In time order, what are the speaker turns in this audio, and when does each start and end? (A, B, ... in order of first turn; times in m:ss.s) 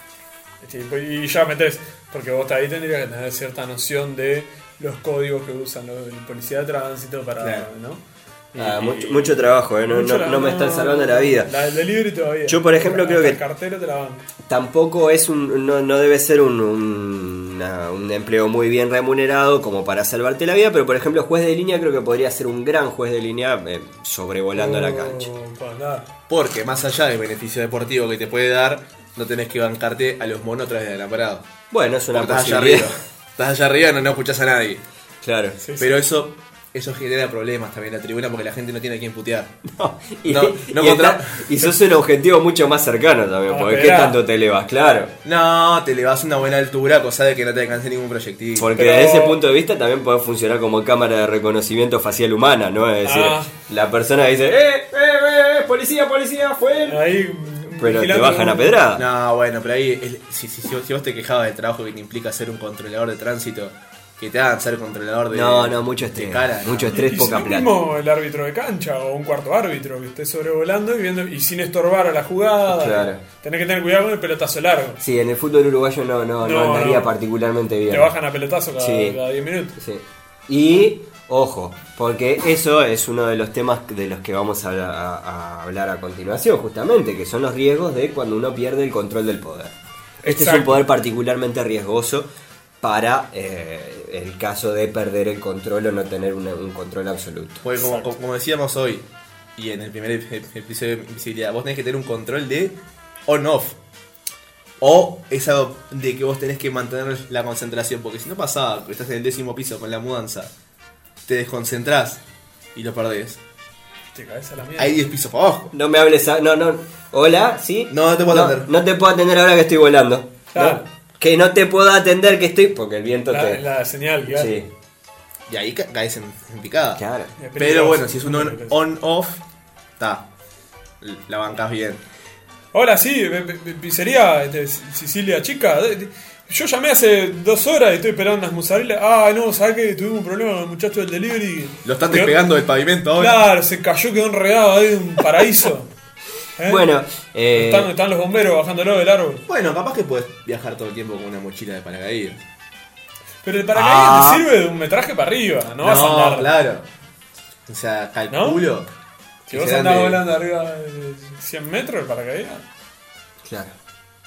0:00.6-0:14.2 A
0:07.4-0:07.7 B
0:08.6-0:11.5 C
0:12.5-0:13.4 C
0:14.5-0:25.3 C
0:24.5-0:26.1 A
0:26.3-0:31.5 B
0:31.7-0:32.9 C
0:32.1-0:34.8 B
0:35.2-0:35.6 C
0:35.6-0:35.9 A
0:35.8-0:39.6 B
0:39.7-0:45.1 C
0:40.2-0:41.5 B
0:43.5-0:44.2 A
0:45.2-0:48.7 B
0:48.6-0:57.0 C
0:48.7-0:49.4 A
0:53.0-0:53.5 A
0:56.8-0:58.8 A
0:57.7-0:59.0 C
0:59.0-1:07.1 B
1:05.3-1:07.7 C
1:06.9-1:15.0 A
1:12.7-1:13.2 C
1:15.0-1:18.1 C
1:16.4-1:17.1 A
1:17.9-1:19.8 A
1:18.8-1:19.2 C
1:19.8-1:29.7 C
1:30.2-1:30.8 A
1:30.2-1:32.3 C
1:32.8-1:37.6 C
1:37.6-1:43.8 B
1:37.8-1:38.1 A
1:44.8-1:50.5 B
1:51.2-1:52.2 B
1:52.7-1:53.4 B
1:54.1-1:55.0 A
1:54.8-1:55.7 B
1:55.7-2:03.6 C
1:57.9-1:58.7 B
2:00.5-2:00.8 A
2:03.3-2:04.5 A
2:04.3-2:04.7 C
2:05.5-2:07.0 B
2:07.0-2:07.3 C
2:07.4-2:08.8 A
2:07.6-2:09.4 B
2:10.0-2:10.3 B
2:11.0-2:12.0 B
2:12.7-2:22.4 A
2:21.8-2:23.4 B
2:23.2-2:25.9 A
2:26.6-2:26.9 A
2:26.6-2:27.9 C
2:27.5-2:29.4 A
2:29.5-2:32.4 B
2:33.4-2:36.5 A
2:33.7-2:34.4 C
2:35.8-2:36.9 B
2:37.7-2:38.9 B
2:38.3-2:38.6 A
2:39.5-2:42.6 A
2:39.5-2:40.2 B
2:43.4-2:43.7 C